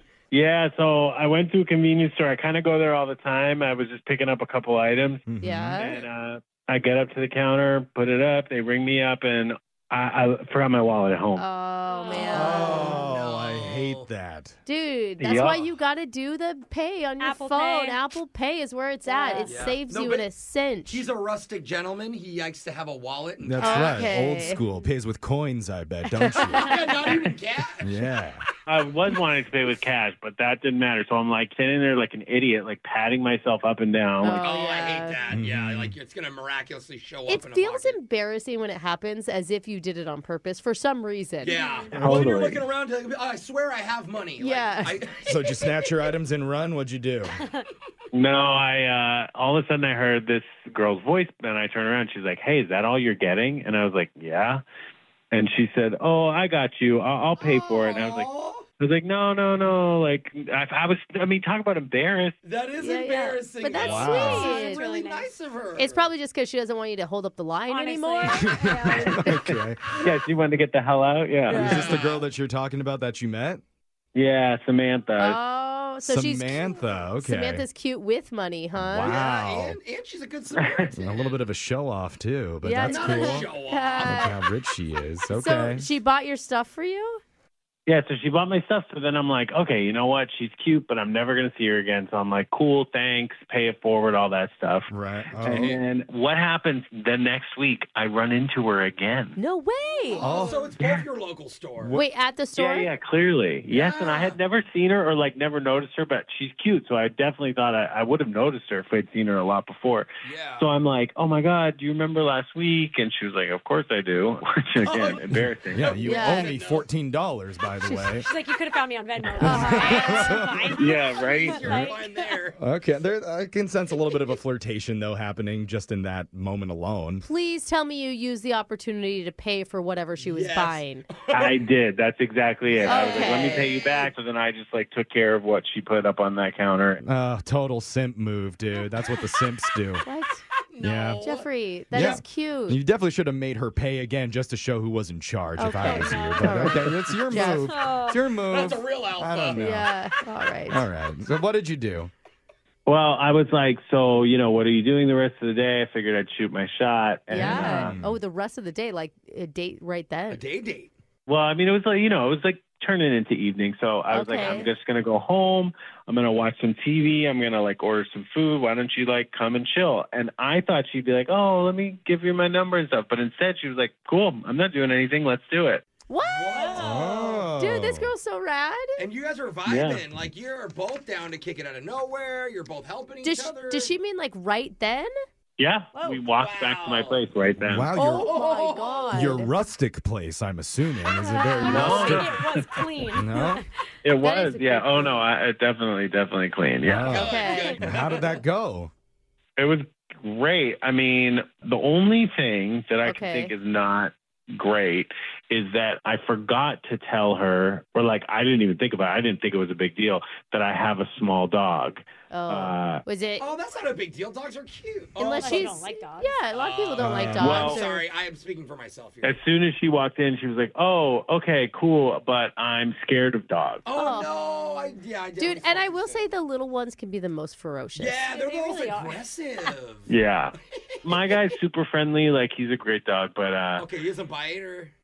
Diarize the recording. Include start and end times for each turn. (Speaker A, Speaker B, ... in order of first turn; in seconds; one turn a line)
Speaker A: 0.3-5.2
Speaker B: 5.3-5.8
Speaker C: 5.4-6.0
Speaker A: 5.8-11.5
Speaker D: 5.8-6.1
Speaker C: 11.4-13.0
Speaker E: 11.9-12.8
Speaker B: 12.2-14.6
Speaker D: 12.5-14.1
Speaker C: 14.7-21.0
Speaker A: 15.2-15.7
Speaker E: 17.2-18.0
Speaker E: 19.1-19.7
Speaker D: 19.4-20.3
Speaker D: 20.9-24.1
Speaker B: 23.4-27.1
Speaker C: 23.6-24.6
Speaker C: 26.2-26.7
Speaker D: 26.5-27.9
Speaker B: 27.8-28.4
Speaker A: 28.7-34.6
Speaker C: 34.2-35.2
Speaker D: 34.4-38.0
Speaker B: 35.3-36.0
Speaker C: 37.3-41.6
Speaker D: 41.4-45.8
Speaker E: 41.4-41.9
Speaker B: 41.9-42.2
Speaker A: 42.0-42.6
Speaker C: 44.4-45.1
Speaker B: 45.3-47.4
Speaker A: 48.1-54.6
Speaker A: 55.3-62.4
Speaker D: 57.4-58.6
Speaker D: 62.4-66.1
Speaker C: 62.8-64.9
Speaker E: 63.0-63.4
Speaker B: 63.7-64.5
Speaker E: 64.1-65.4
Speaker C: 65.8-69.4
Speaker E: 67.7-69.3
Speaker B: 68.3-70.0
Speaker A: 70.0-71.8
Speaker B: 71.5-73.6
Speaker C: 71.5-72.0
Speaker D: 71.5-72.3
Speaker A: 74.2-75.4
Speaker C: 75.2-79.2
Speaker B: 76.0-77.7
Speaker B: 78.8-79.8
Speaker D: 79.0-81.4
Speaker A: 80.6-80.9
Speaker B: 81.0-85.9
Speaker C: 82.6-84.4
Speaker D: 82.8-84.3
Speaker C: 85.3-87.2
Speaker A: 87.9-99.4
Speaker B: 94.9-95.8
Speaker D: 95.5-95.8
Speaker C: 99.4-100.3
Speaker D: 100.1-102.0
Speaker B: 100.2-100.7
Speaker A: 100.2-101.0
Speaker B: 101.8-102.0
Speaker C: 101.9-102.9
Speaker A: 102.6-116.0
Speaker D: 103.7-104.4
Speaker D: 110.2-110.7
Speaker D: 114.8-116.9
Speaker B: 115.3-118.3
Speaker C: 116.0-116.5
Speaker E: 117.9-122.2
Speaker C: 119.4-120.9
Speaker B: 119.4-120.8
Speaker A: 120.8-121.7
Speaker D: 121.1-122.6
Speaker B: 121.5-121.9
Speaker B: 122.6-127.2
Speaker C: 127.2-131.1
Speaker D: 130.2-131.6
Speaker A: 131.3-137.0
Speaker D: 132.7-134.1
Speaker C: 132.9-133.7
Speaker B: 137.0-140.0
Speaker C: 140.1-140.4
Speaker D: 140.7-142.2
Speaker B: 140.8-141.2
Speaker C: 141.2-142.8
Speaker B: 141.9-149.9
Speaker C: 145.6-147.7
Speaker E: 145.8-146.8
Speaker E: 147.4-148.2
Speaker D: 148.4-149.8
Speaker C: 149.6-150.8
Speaker B: 150.7-152.1
Speaker A: 152.9-157.9
Speaker C: 157.3-160.4
Speaker B: 157.3-158.2
Speaker D: 160.3-160.9
Speaker A: 161.3-175.8
Speaker C: 164.1-164.7
Speaker D: 164.3-164.7
Speaker C: 176.1-179.0
Speaker D: 176.2-177.5
Speaker E: 176.5-177.1
Speaker B: 176.7-178.1
Speaker D: 179.0-183.9
Speaker A: 179.7-180.0
Speaker C: 183.2-185.1
Speaker A: 185.6-187.9
Speaker E: 185.9-186.2
Speaker D: 186.3-187.3
Speaker B: 187.6-188.3
Speaker C: 187.9-189.5
Speaker D: 188.0-189.3
Speaker B: 189.1-192.3
Speaker E: 191.1-193.7
Speaker C: 191.4-192.1
Speaker A: 191.7-192.8
Speaker B: 193.1-193.6
Speaker A: 194.0-197.4
Speaker C: 194.2-195.2
Speaker B: 196.8-198.9
Speaker D: 197.0-198.4
Speaker C: 197.2-197.8
Speaker A: 199.6-213.0
Speaker C: 203.0-203.5
Speaker C: 212.3-213.4
Speaker D: 213.4-215.8
Speaker C: 215.2-218.1
Speaker E: 215.3-216.4
Speaker D: 216.6-219.3
Speaker B: 217.0-217.8
Speaker A: 217.4-217.8
Speaker A: 219.2-223.8
Speaker D: 223.9-226.3
Speaker C: 223.9-224.3
Speaker C: 225.4-228.3
Speaker D: 227.9-230.1
Speaker E: 228.2-229.7
Speaker A: 230.1-233.9
Speaker D: 230.7-231.4
Speaker D: 233.8-234.9